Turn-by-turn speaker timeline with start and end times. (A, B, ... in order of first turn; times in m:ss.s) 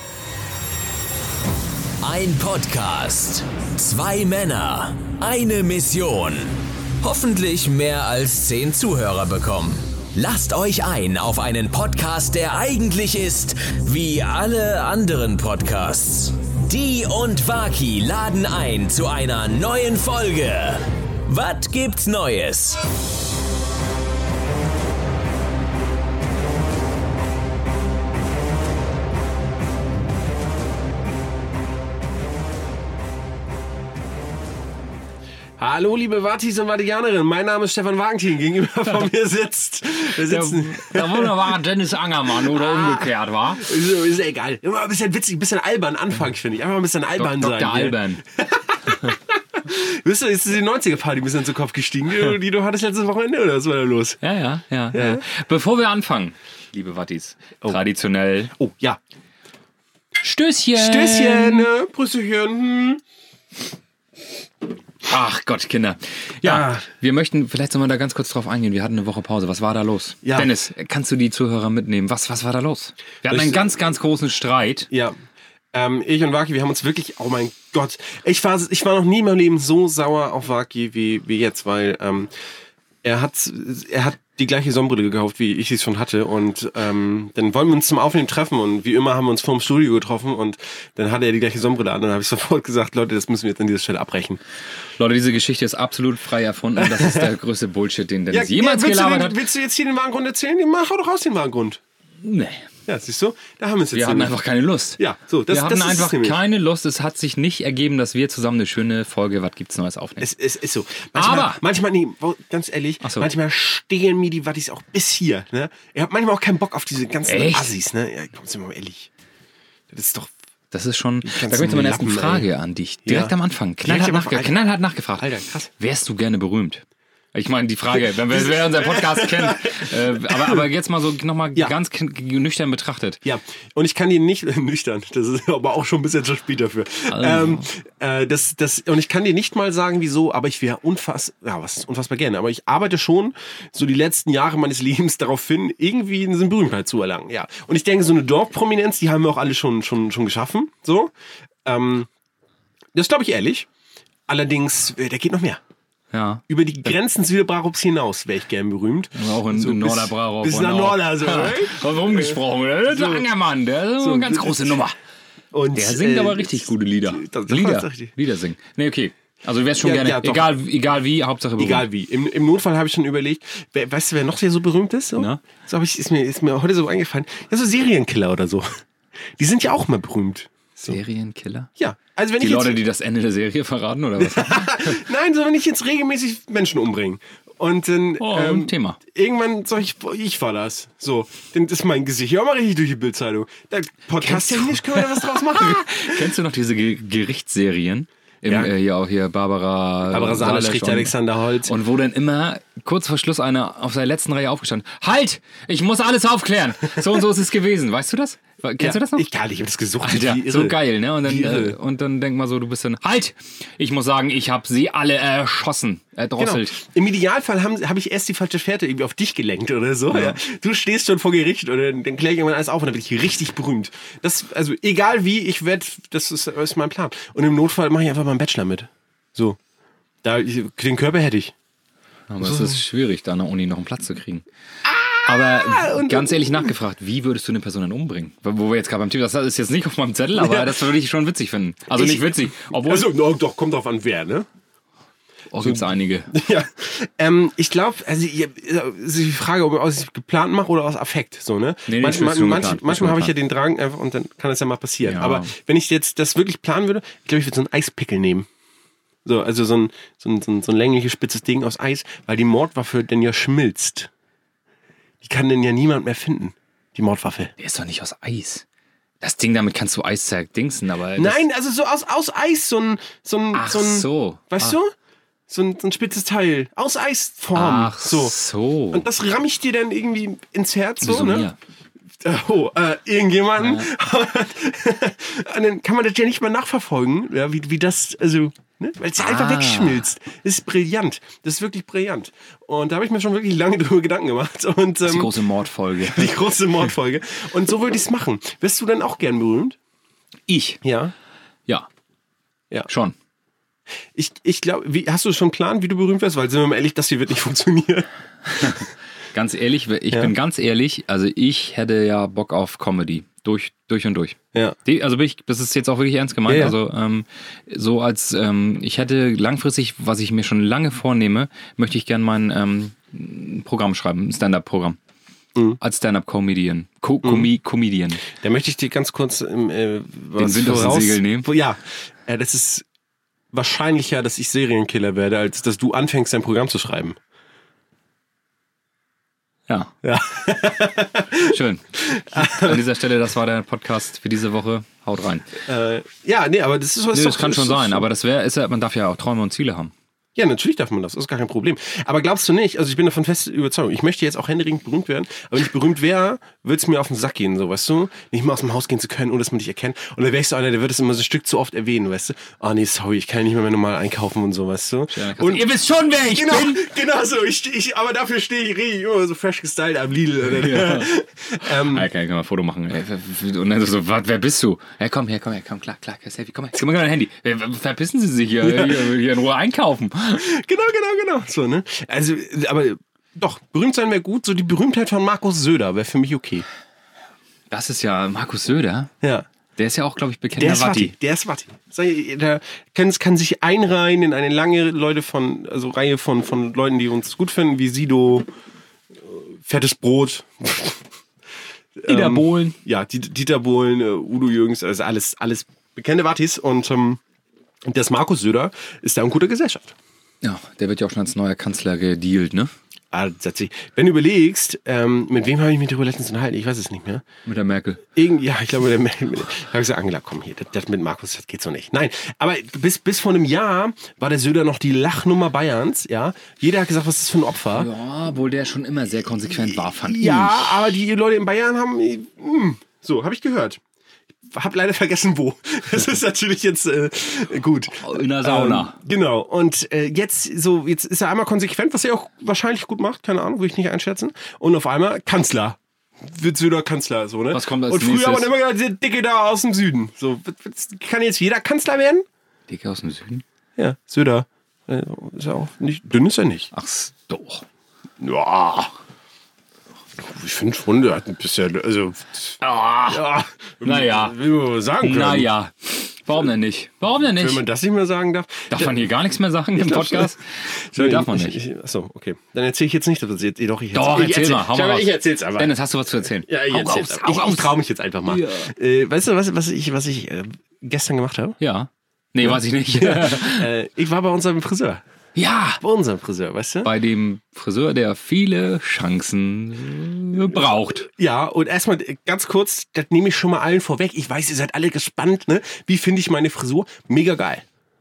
0:02.0-0:22.8 A
0:35.6-0:41.4 B
0:40.2-0:43.7 C
0:42.4-0:54.2 B
0:47.2-0:48.2 C
0:54.2-0:58.5 C
0:54.9-0:55.2 B
0:58.6-0:59.0 B
1:00.2-1:01.7 C
1:00.7-1:03.0 B
1:05.0-1:14.9 C
1:06.4-1:06.9 B
1:10.2-1:10.5 B
1:13.3-1:13.6 B
1:14.9-1:15.2 B
1:15.7-1:22.3 B
1:23.0-1:34.4 B
1:35.0-1:39.4 C
1:36.8-1:37.3 B
1:38.3-1:41.8 B
1:42.2-1:42.7 C
1:42.9-1:44.4 B
1:43.9-1:50.3 C
1:45.0-1:46.4 B
1:50.2-1:59.1 B
1:51.1-1:51.6 C
1:53.0-1:53.3 C
1:57.2-1:57.7 C
1:59.9-2:00.3 B
2:00.7-2:13.2 C
2:01.2-2:02.4 B
2:03.0-2:04.6 B
2:05.2-2:05.7 B
2:08.0-2:10.6 B
2:13.2-2:31.1 B
2:17.1-2:17.7 C
2:31.6-2:32.1 B
2:32.9-2:33.7 B
2:34.3-2:35.6 B
2:36.1-2:36.4 C
2:36.5-2:43.3 B
2:39.1-2:44.9 C
2:44.0-2:44.7 B
2:45.5-2:48.1 B
2:45.7-2:51.9 C
2:49.8-2:50.5 B
2:51.6-2:58.7 B
2:55.2-2:55.4 C
2:59.4-3:01.0 B
3:00.8-3:01.7 C
3:01.8-3:02.8 B
3:02.4-3:05.0 C
3:04.2-3:16.3 B
3:08.2-3:09.0 C
3:14.2-3:21.1 C
3:18.4-3:18.7 B
3:20.1-3:21.7 B
3:21.6-3:29.3 C
3:28.8-3:31.8 B
3:30.0-3:36.8 C
3:36.4-3:49.6 B
3:40.1-3:40.4 C
3:50.2-3:51.5 B
3:52.3-3:54.4 C
3:52.4-3:52.8 B
3:54.8-3:56.7 B
3:55.2-4:03.1 C
4:00.4-4:00.8 B
4:01.9-4:04.4 B
4:05.5-4:06.3 C
4:05.6-4:18.5 B
4:11.9-4:13.3 C
4:15.0-4:15.5 C
4:19.2-4:24.1 B
4:25.2-4:27.5 B
4:27.6-4:28.6 C
4:29.2-4:31.4 C
4:31.2-4:34.9 B
4:33.5-4:34.8 C
4:35.5-4:38.3 B
4:37.5-4:39.1 C
4:38.9-4:41.5 B
4:41.0-4:41.6 C
4:42.2-4:55.3 B
4:43.6-4:43.9 C
4:49.2-4:50.1 C
4:55.0-4:56.5 C
4:56.0-4:59.8 B
5:00.5-5:00.8 C
5:00.8-5:01.1 B
5:02.9-5:03.1 C
5:04.2-5:08.8 B
5:09.3-5:25.0 C
5:16.5-5:16.7 B
5:25.8-5:28.2 C
5:27.2-5:27.5 B
5:28.3-5:32.8 B
5:30.4-5:31.5 C
5:33.5-5:37.2 B
5:39.7-5:39.9 C
5:40.0-5:42.8 B
5:41.4-5:45.5 C
5:45.6-5:48.0 B
5:47.1-5:49.9 C
5:50.4-6:05.6 B
6:05.1-6:06.8 C
6:06.3-6:12.1 B
6:10.4-6:11.1 C
6:11.7-6:20.4 C
6:18.6-6:19.1 B
6:20.4-6:26.6 B
6:27.7-6:29.1 C
6:29.2-6:29.5 B
6:29.8-6:31.1 C
6:30.6-6:38.4 B
6:39.3-6:41.0 B
6:42.0-6:47.2 B
6:42.1-6:42.8 C
6:47.8-6:50.0 B
6:50.4-6:52.7 C
6:53.1-6:57.2 B
6:57.4-6:58.0 C
6:58.1-7:07.9 B
7:07.7-7:10.9 C
7:09.6-7:13.8 B
7:14.5-7:32.2 B
7:18.0-7:19.0 C
7:27.5-7:28.5 C
7:32.7-7:33.4 C
7:33.8-7:36.7 B
7:36.7-7:37.6 C
7:38.2-7:38.9 B
7:40.2-7:45.5 B
7:42.6-7:43.3 C
7:43.8-7:44.4 C
7:45.0-7:47.6 C
7:47.3-7:49.1 B
7:48.7-7:51.6 C
7:49.8-7:55.7 B
7:53.9-7:57.7 C
7:56.4-8:01.6 B
7:58.3-7:58.7 C
8:01.6-8:03.7 C
8:02.4-8:05.0 B
8:05.3-8:05.8 C
8:05.8-8:06.9 B
8:06.8-8:11.1 C
8:11.1-8:17.6 B